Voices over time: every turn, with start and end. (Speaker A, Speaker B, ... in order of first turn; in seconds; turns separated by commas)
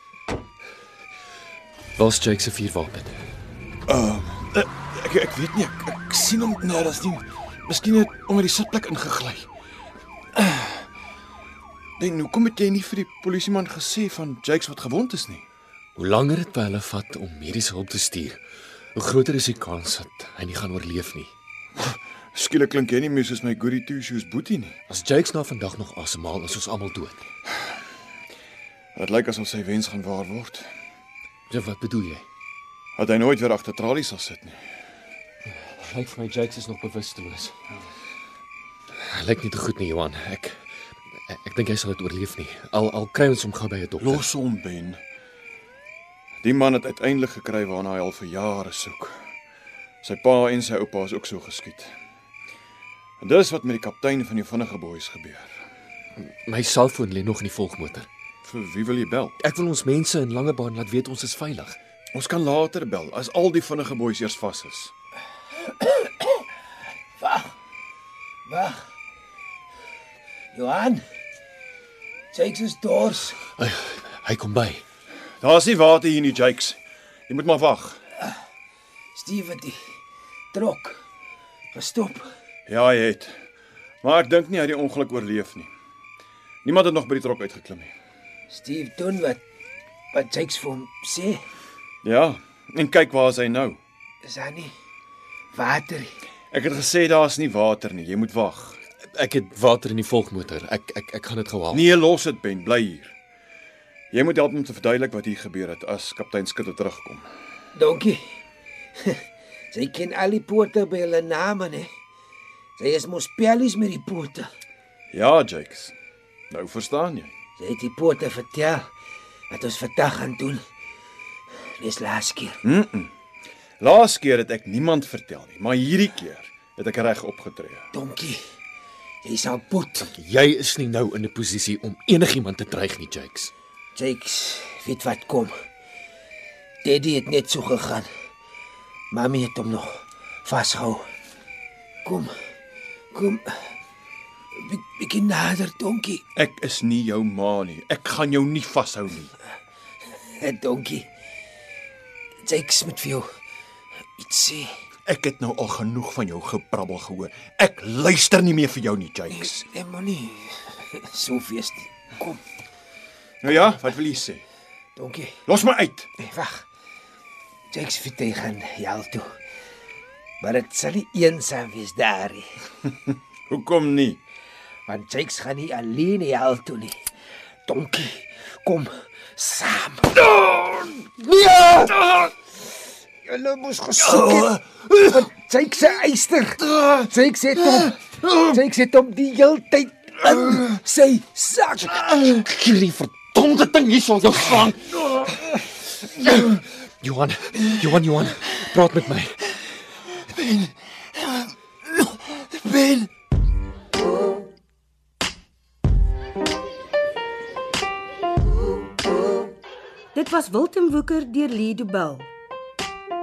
Speaker A: 2.0-3.2, Speaker B: 3.9-9.5, Speaker B: 10.3-10.8, Speaker B: 12.0-15.4, Speaker A: 15.9-18.4, Speaker A: 18.9-21.3, Speaker B: 21.8-24.7, Speaker A: 24.9-27.2, Speaker B: 28.9-30.7, Speaker A: 31.5-32.2, Speaker B: 33.0-34.6, Speaker A: 35.6-37.5, Speaker A: 39.0-40.6, Speaker A: 41.3-44.2, Speaker B: 44.0-45.0, Speaker B: 46.4-49.2, Speaker B: 50.0-51.9, Speaker B: 53.2-55.5, Speaker A: 56.2-58.1, Speaker B: 58.4-59.4, Speaker A: 59.4-61.8, Speaker B: 62.1-64.9, Speaker C: 65.8-66.4, Speaker C: 67.2-67.5, Speaker C: 68.5-68.8, Speaker C: 70.5-71.0, Speaker C: 72.3-73.4, Speaker A: 73.6-74.8, Speaker B: 75.4-76.8, Speaker B: 77.3-78.0, Speaker C: 79.1-79.8, Speaker C: 80.5-81.0, Speaker C: 81.7-82.2, Speaker B: 82.7-83.3, Speaker B: 84.0-85.7, Speaker B: 86.6-87.9, Speaker C: 88.5-89.4, Speaker C: 90.1-91.4, Speaker B: 92.0-93.8, Speaker C: 94.2-94.7, Speaker C: 95.5-96.1, Speaker B: 96.5-98.8, Speaker A: 99.1-101.8, Speaker B: 101.7-103.1, Speaker B: 104.1-107.2, Speaker C: 107.7-108.2, Speaker C: 109.7-111.9, Speaker C: 112.8-114.5, Speaker B: 115.1-115.9, Speaker B: 116.5-117.3, Speaker C: 117.6-118.9, Speaker C: 119.5-120.6, Speaker C: 121.8-122.6, Speaker B: 122.6-123.1, Speaker B: 123.8-127.9, Speaker C: 127.9-128.4, Speaker C: 129.2-130.2, Speaker A: 130.2-133.5, Speaker C: 133.9-135.5, Speaker C: 136.8-138.1, Speaker C: 139.1-141.0, Speaker C: 142.0-142.3, Speaker C: 143.1-143.7, Speaker C: 144.5-146.2, Speaker B: 146.3-149.3, Speaker C: 150.4-151.1, Speaker C: 152.4-153.2, Speaker C: 154.2-154.7, Speaker B: 155.1-159.5, Speaker C: 159.3-162.4, Speaker B: 163.4-164.4, Speaker C: 164.9-165.4, Speaker B: 165.5-166.1, Speaker C: 166.2-166.6, Speaker C: 167.7-169.2, Speaker C: 170.4-172.4, Speaker B: 173.5-174.2, Speaker C: 174.9-176.9, Speaker C: 177.7-180.2, Speaker B: 180.4-180.7, Speaker A: 181.3-181.7, Speaker C: 183.2-192.1, Speaker A: 192.0-195.5, Speaker A: 196.2-199.4, Speaker D: 210.1-212.3